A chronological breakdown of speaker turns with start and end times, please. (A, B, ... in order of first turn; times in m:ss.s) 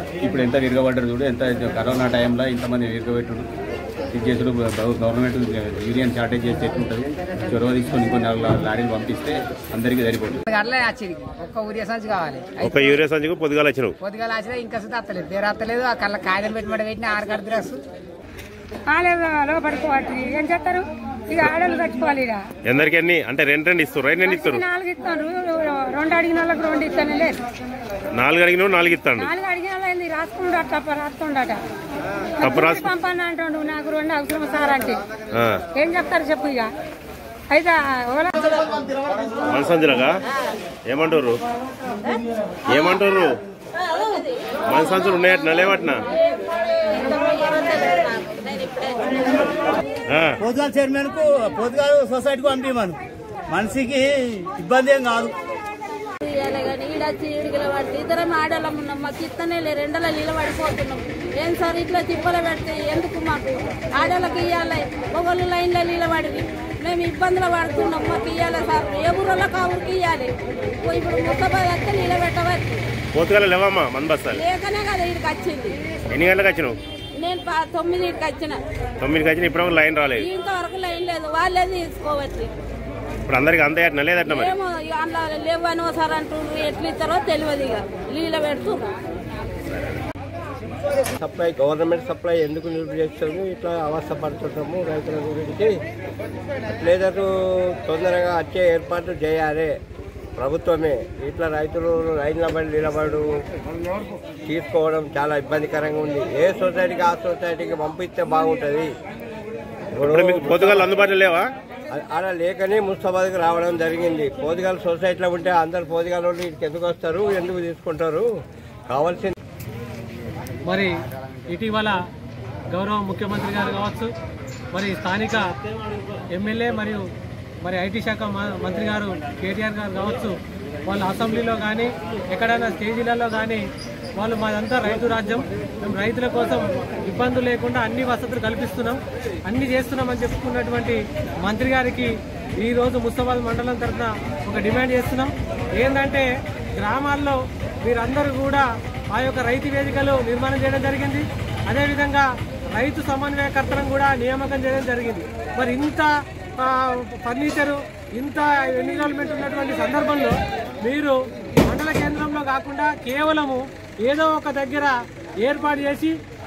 0:00.2-0:03.4 A
0:04.1-0:10.4 A
0:10.5-0:13.0 B
0:13.0-0:13.9 C
0:14.0-0:17.8 B
0:18.9-0:22.4 D
0:22.7-0:24.6 C
0:24.2-0:27.4 D
0:28.2-0:29.2 C
0:29.2-0:31.6 D
0:32.4-0:35.0 D
0:35.7-0:36.7 D
0:37.5-0:38.6 D
0:39.5-0:40.1 C
0:40.9-0:41.4 C
0:42.7-0:43.3 C
0:44.7-0:46.0 C
0:47.0-0:49.2 E
0:50.4-0:55.3 F
0:56.3-1:03.4 E
1:04.0-1:10.3 E
1:04.1-1:04.7 C
1:05.2-1:06.2 C
1:07.8-1:08.4 C
1:09.0-1:10.2 C
1:10.8-1:12.6 E
1:10.9-1:12.6 C
1:13.1-1:15.6 C
1:14.3-1:15.7 E
1:16.1-1:18.5 C
1:17.2-1:18.5 E
1:19.0-1:22.4 C
1:20.2-1:22.4 E
1:23.3-1:27.6 C
1:24.2-1:24.6 E
1:26.5-1:28.9 E
1:28.2-1:28.7 C
1:31.2-1:35.8 G
1:36.8-1:39.8 G
1:40.4-1:43.2 G
1:44.4-1:48.9 G
1:50.0-1:50.8 G
1:50.1-1:50.9 E
1:50.2-1:51.4 C
1:51.9-1:58.2 G
1:58.9-1:59.3 G
2:00.7-2:00.9 H
2:01.5-2:01.9 H
2:02.7-2:04.1 H
2:04.7-2:05.4 H
2:06.3-2:07.0 H
2:07.6-2:10.4 H
2:10.9-2:13.6 H
2:14.2-2:26.2 H
2:26.8-2:36.1 H
2:36.6-2:41.1 H
2:41.7-2:46.1 H